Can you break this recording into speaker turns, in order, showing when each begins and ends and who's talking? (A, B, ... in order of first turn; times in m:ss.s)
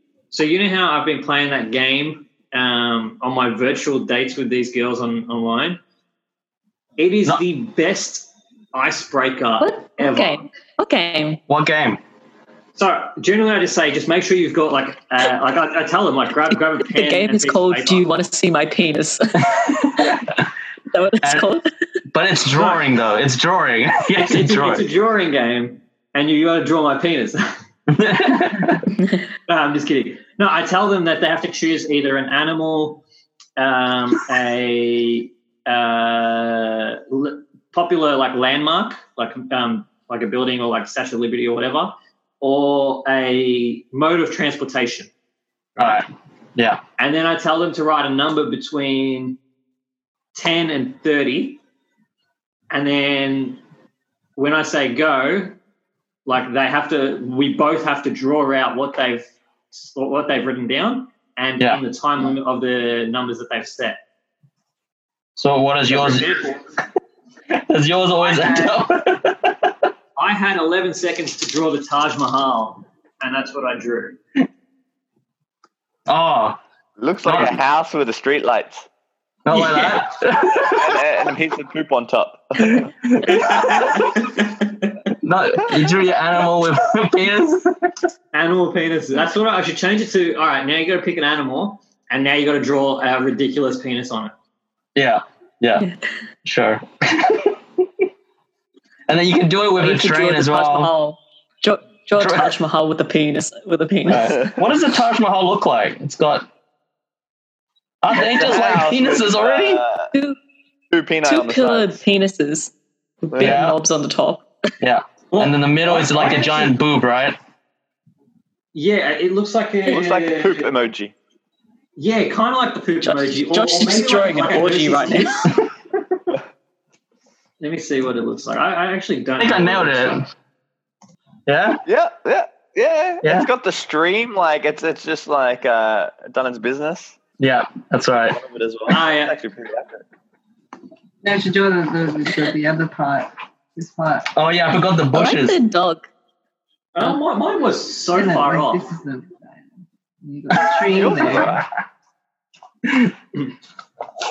0:00.3-0:05.8 A
0:07.0-0:10.4 A
0:09.6-0:11.4 B
0:11.5-0:12.0 C
0:12.8-0:18.1 A
0:16.9-0:20.2 B
0:19.7-0:20.4 C
0:20.9-0:21.7 B
0:22.1-0:24.9 C
0:22.6-0:22.8 A
0:24.2-0:27.5 A
0:27.9-0:28.9 C
0:29.5-0:33.0 A
0:33.6-0:45.1 A
0:45.8-0:46.0 A
0:45.8-0:46.8 C
0:47.0-0:49.4 A
0:50.4-0:51.6 A
0:52.7-0:53.6 A
0:54.4-0:55.6 A
0:56.3-1:04.0 A
1:05.4-1:06.3 C
1:05.9-1:06.6 A
1:07.5-1:09.8 C
1:10.2-1:14.2 A
1:16.1-1:16.6 C
1:17.0-1:18.9 D
1:17.2-1:17.6 C
1:19.5-1:21.0 C
1:19.5-1:20.0 A
1:20.7-1:22.9 D
1:22.6-1:24.2 C
1:23.3-1:24.9 A
1:25.2-1:27.9 C
1:28.3-1:34.4 A
1:35.0-1:35.9 C
1:36.4-1:37.6 C
1:39.1-1:40.9 C
1:39.8-1:44.4 B
1:42.2-1:42.6 C
1:44.1-1:46.5 C
1:44.3-1:44.6 D
1:48.0-1:49.8 C
1:48.1-1:50.1 D
1:50.1-1:50.4 B
1:50.9-1:52.0 D
1:51.2-1:54.5 B
1:53.3-1:53.6 D
1:53.4-1:53.8 C
1:54.8-1:57.4 C
1:55.3-1:56.8 A
1:58.7-2:00.7 A
1:59.9-2:01.1 D
2:02.0-2:05.5 A
2:03.0-2:05.5 B
2:07.6-2:10.2 A
2:09.4-2:10.3 C
2:11.5-2:11.8 C
2:11.9-2:17.2 D
2:13.2-2:13.5 C
2:17.4-2:18.4 C
2:18.3-2:20.0 D
2:18.9-2:19.4 A
2:21.2-2:24.3 E
2:24.4-2:25.6 C
2:25.1-2:26.1 B
2:27.0-2:28.9 A
2:28.1-2:29.6 E
2:30.2-2:31.5 E
2:30.5-2:31.6 C
2:30.9-2:31.7 D
2:32.9-2:33.1 C